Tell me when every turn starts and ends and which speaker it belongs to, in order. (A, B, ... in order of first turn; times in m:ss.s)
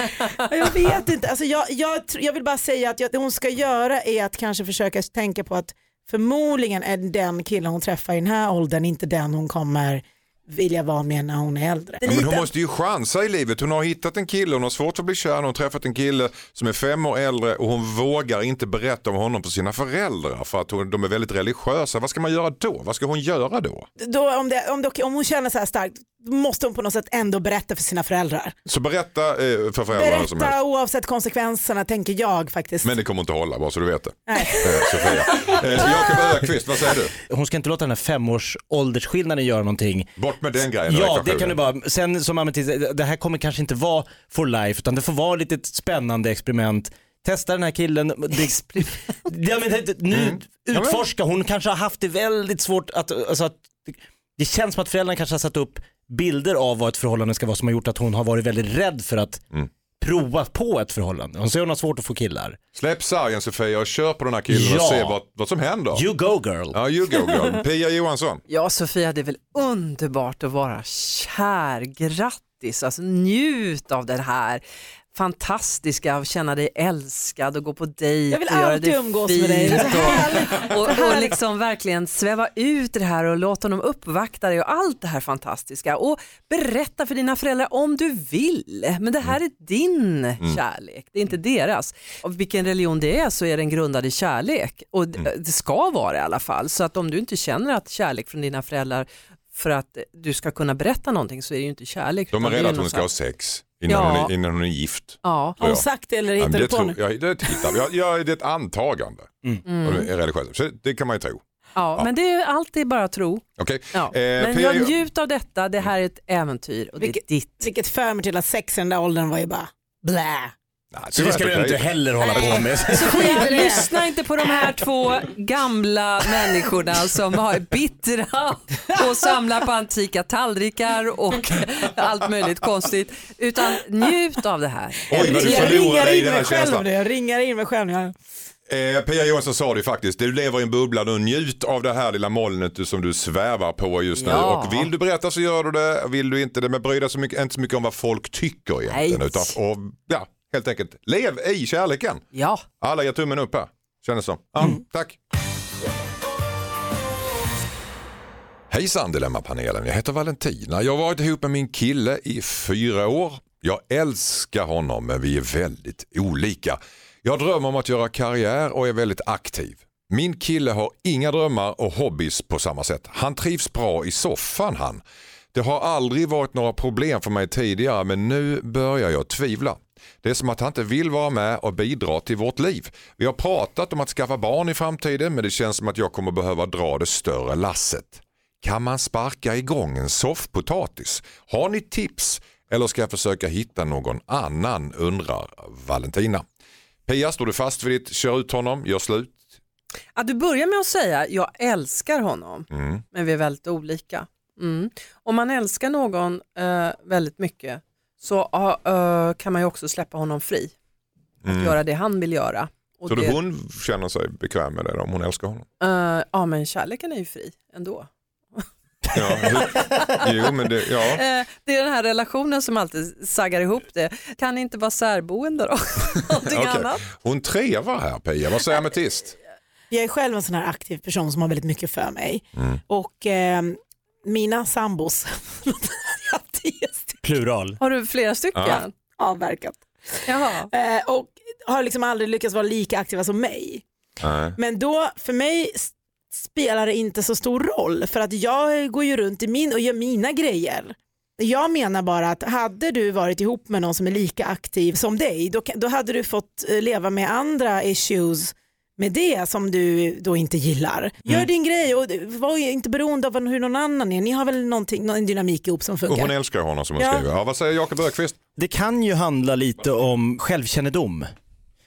0:00.3-0:12.5 A
0:12.0-0:23.9 B
0:24.0-0:28.5 A
0:28.6-0:30.6 B
0:29.9-0:32.9 A
0:32.8-0:37.1 B
0:34.3-0:36.2 A
0:37.3-0:40.1 C
0:40.2-0:41.6 B
0:40.8-0:59.4 C
0:50.1-0:51.0 B
1:00.0-1:02.6 C
1:02.7-1:06.0 B
1:04.5-1:05.2 C
1:05.9-1:06.8 C
1:06.7-1:08.4 B
1:08.5-1:14.6 D
1:15.1-1:43.1 D
1:18.3-1:21.4 A
1:42.3-1:45.8 B
1:43.9-1:44.3 D
1:45.2-1:45.6 D
1:45.6-1:47.7 A
1:46.4-1:51.4 B
1:49.7-1:50.1 D
1:51.8-1:57.6 D
1:53.6-1:55.0 B
1:57.0-2:00.5 A
2:00.9-2:02.7 B
2:01.1-2:03.2 C
2:02.3-2:15.8 D
2:02.9-2:03.9 A
2:15.1-2:16.9 B
2:15.1-2:18.1 A
2:18.7-2:32.2 B
2:24.2-2:24.9 D
2:28.9-2:29.5 D
2:32.3-2:32.6 D
2:32.8-2:35.2 B
2:38.7-2:55.0 B
2:55.5-3:16.4 B
3:17.0-3:19.4 B
3:20.2-3:30.7 D
3:22.7-3:23.0 B
3:31.4-3:31.8 B
3:31.4-3:33.4 D
3:33.1-3:35.6 B
3:35.8-3:47.0 D
3:39.1-3:41.2 B
3:46.4-3:49.3 B
3:49.9-3:57.2 A
3:57.2-3:57.8 C
3:57.8-3:58.9 D
3:58.5-3:58.8 B
3:59.2-4:03.8 A
4:00.2-4:00.7 D
4:04.2-4:04.6 B
4:04.6-4:26.3 A
4:26.0-4:28.4 B
4:27.0-4:27.2 A
4:28.6-4:31.3 C